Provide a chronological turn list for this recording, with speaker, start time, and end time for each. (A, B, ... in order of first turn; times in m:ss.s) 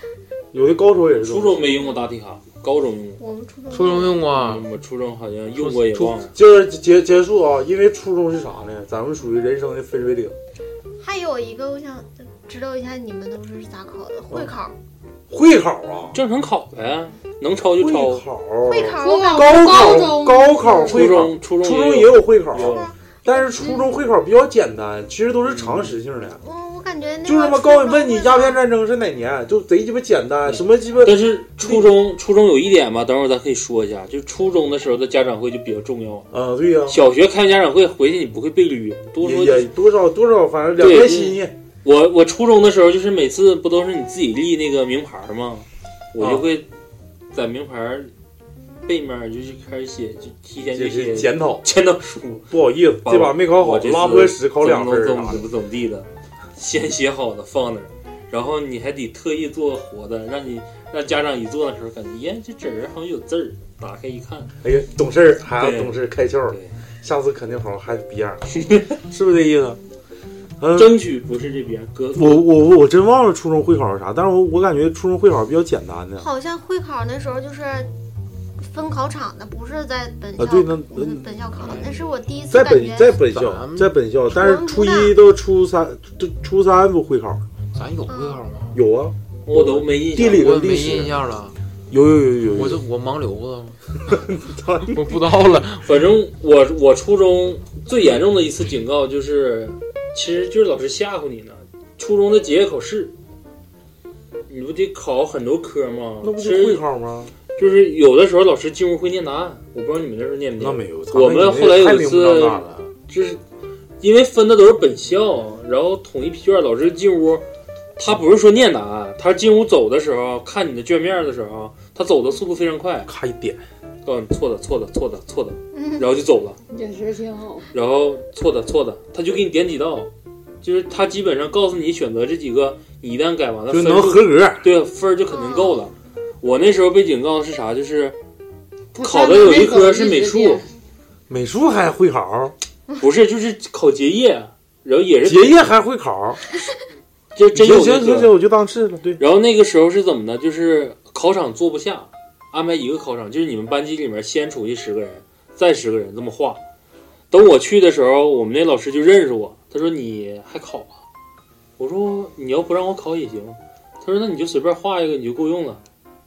0:00.5-0:01.7 A
0:01.2-0:03.2 B
0:03.2-0:04.2 C
0:03.7-0:04.7 D
0:04.3-0:06.3 B
0:05.6-0:06.2 D
0:06.3-0:10.3 A
0:11.0-0:14.7 C
0:15.3-0:16.2 A
0:16.1-0:18.2 B
0:17.8-0:26.4 A
0:18.6-0:20.9 C
0:19.0-0:20.8 E
0:20.9-0:22.9 B
0:22.6-0:23.8 C
0:25.4-0:26.0 B
0:26.4-0:28.6 C
0:27.2-0:31.9 A
0:30.4-0:36.3 B
0:36.3-0:37.0 A
0:36.9-0:39.7 B
0:39.2-0:41.5 A
0:40.8-0:46.6 B
0:46.2-0:46.4 A
0:47.3-0:48.1 B
0:48.8-0:52.4 B
0:50.7-0:51.6 A
0:52.5-0:55.4 A
0:53.0-1:04.5 B
1:04.6-1:08.5 A
1:05.6-1:06.0 B
1:09.0-1:09.8 A
1:10.6-1:10.9 A
1:10.7-1:12.4 B
1:12.1-1:16.3 A
1:16.2-1:17.9 C
1:18.6-1:23.2 C
1:20.4-1:21.2 A
1:21.6-1:22.1 D
1:22.5-1:27.4 A
1:23.3-1:23.9 D
1:24.3-1:25.2 C
1:27.7-1:28.8 D
1:28.1-1:28.4 C
1:28.7-1:31.2 A
1:29.4-1:30.5 B
1:30.3-1:31.5 D
1:31.9-1:32.8 A
1:32.5-1:33.8 D
1:34.1-1:35.1 A
1:34.9-1:35.9 D
1:35.8-1:43.1 B
1:44.5-1:46.8 B
1:46.2-1:47.3 A
1:47.6-1:53.4 B
1:50.6-1:52.9 A
1:54.0-1:57.4 B
1:58.0-2:03.1 B
2:03.0-2:03.6 A
2:04.0-2:06.6 B
2:05.7-2:06.0 C
2:06.7-2:07.7 E
2:07.7-2:10.1 B
2:10.6-2:18.2 B
2:13.7-2:14.7 A
2:15.3-2:15.8 C
2:18.9-2:20.7 E
2:19.0-2:20.6 B
2:21.3-2:22.5 A
2:23.0-2:25.7 B
2:25.2-2:26.4 A
2:27.3-2:28.3 B
2:27.5-2:29.2 A
2:29.2-2:36.6 B
2:37.3-2:41.0 B
2:41.8-2:45.8 B